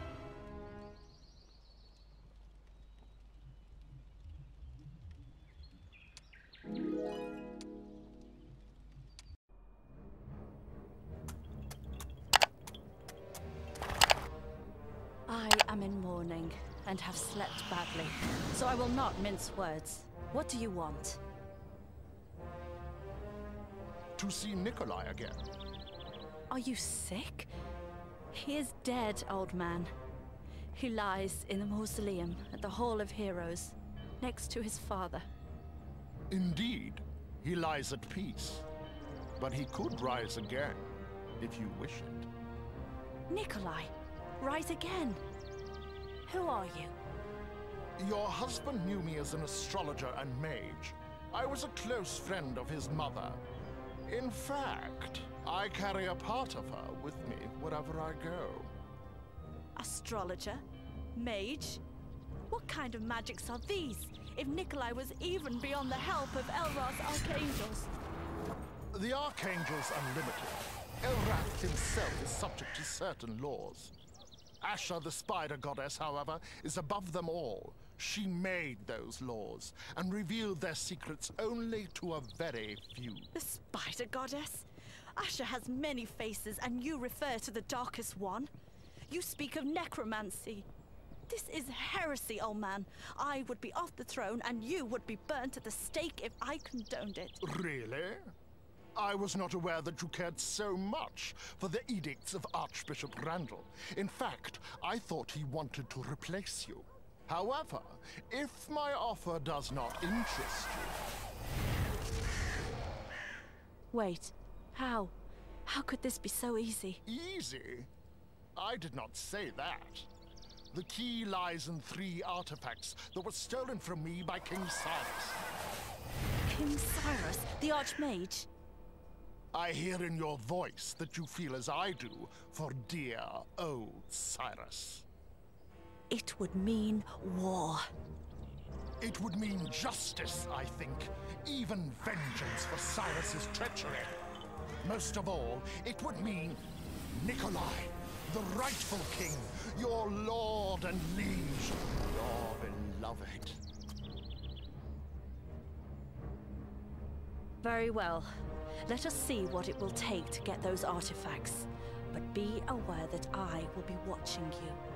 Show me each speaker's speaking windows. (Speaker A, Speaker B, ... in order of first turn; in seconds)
Speaker A: 15.3-21.2, 26.5-27.5, 28.3-29.9, 30.7-35.3, 43.3-45.2, 46.3-47.0, 59.8-61.8, 62.5-67.9, 83.3-88.5, 89.1-90.7, 91.3-97.4, 113.9-115.2, 115.7-117.0, 126.5-128.5, 136.1-137.9, 157.6-164.8
Speaker B: 24.2-25.4, 36.3-38.7, 39.4-42.3, 48.0-53.4, 54.1-58.7, 68.9-73.9, 74.6-83.3, 97.4-98.3, 99.0-111.0, 117.1-117.9, 118.6-120.1, 120.7-125.4, 129.5-135.1, 139.0-144.2, 144.8-153.6